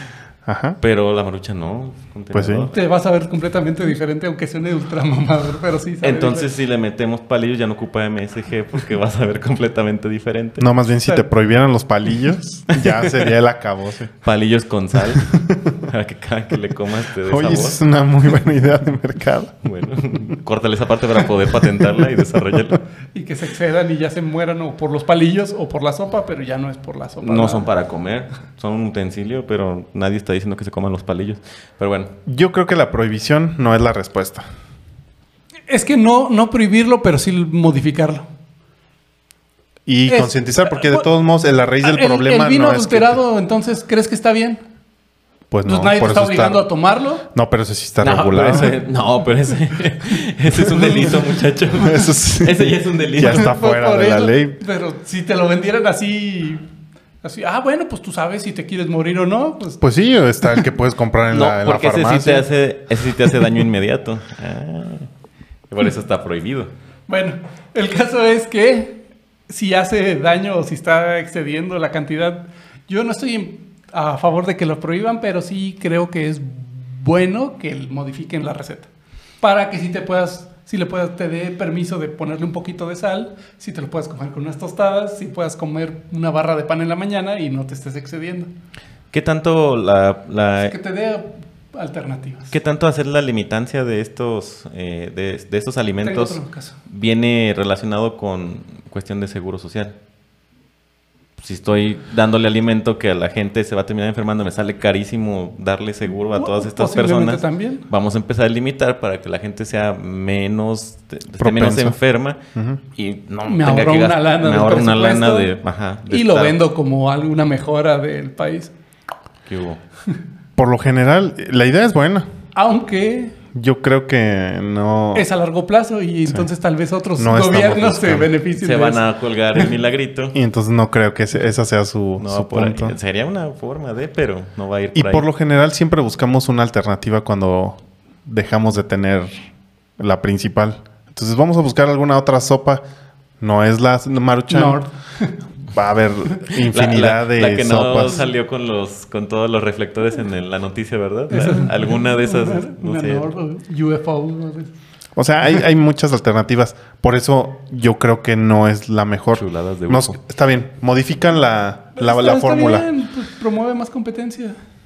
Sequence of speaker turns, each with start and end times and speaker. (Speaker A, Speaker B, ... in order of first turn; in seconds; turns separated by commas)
Speaker A: 0.5-0.8, Speaker B: 0.8-2.8, Speaker A: 2.3-2.7, Speaker C: 2.7-6.5, Speaker B: 6.0-10.7, Speaker A: 10.6-14.1, Speaker B: 12.7-13.3, Speaker B: 14.2-15.3, Speaker A: 15.2-15.7, Speaker B: 15.8-17.8, Speaker A: 17.3-19.6, Speaker B: 19.6-22.8, Speaker C: 23.1-27.7, Speaker B: 27.2-32.1, Speaker A: 32.3-34.5, Speaker C: 35.7-38.3, Speaker A: 39.9-43.2, Speaker C: 40.1-41.1, Speaker C: 41.8-44.6, Speaker A: 45.5-46.7, Speaker C: 45.6-47.2, Speaker A: 47.3-48.7, Speaker B: 48.0-53.5, Speaker C: 50.7-51.3, Speaker A: 51.8-54.6, Speaker C: 53.2-56.6, Speaker C: 57.2-59.8, Speaker A: 59.8-62.5, Speaker B: 61.3-65.1, Speaker B: 65.7-66.7, Speaker C: 67.1-78.9, Speaker C: 79.4-88.5, Speaker B: 89.1-90.8, Speaker C: 90.6-92.5, Speaker B: 92.5-100.0, Speaker C: 96.0-96.8, Speaker B: 101.4-112.4, Speaker C: 106.3-107.8, Speaker A: 111.4-112.0, Speaker A: 112.5-112.8, Speaker B: 113.0-116.6, Speaker C: 113.5-115.5, Speaker C: 116.1-118.7, Speaker B: 119.5-119.8, Speaker A: 120.6-122.3, Speaker C: 122.5-123.3, Speaker A: 123.5-125.3, Speaker C: 125.1-129.0, Speaker A: 127.2-128.3, Speaker B: 128.6-130.4, Speaker A: 130.3-133.0, Speaker B: 132.2-135.3, Speaker A: 134.9-139.3, Speaker A: 140.0-142.8, Speaker A: 143.4-144.8, Speaker C: 144.5-145.3, Speaker A: 145.7-148.2, Speaker B: 146.7-153.3, Speaker C: 151.3-154.7, Speaker A: 155.2-162.9, Speaker B: 159.3-160.2, Speaker C: 162.0-164.6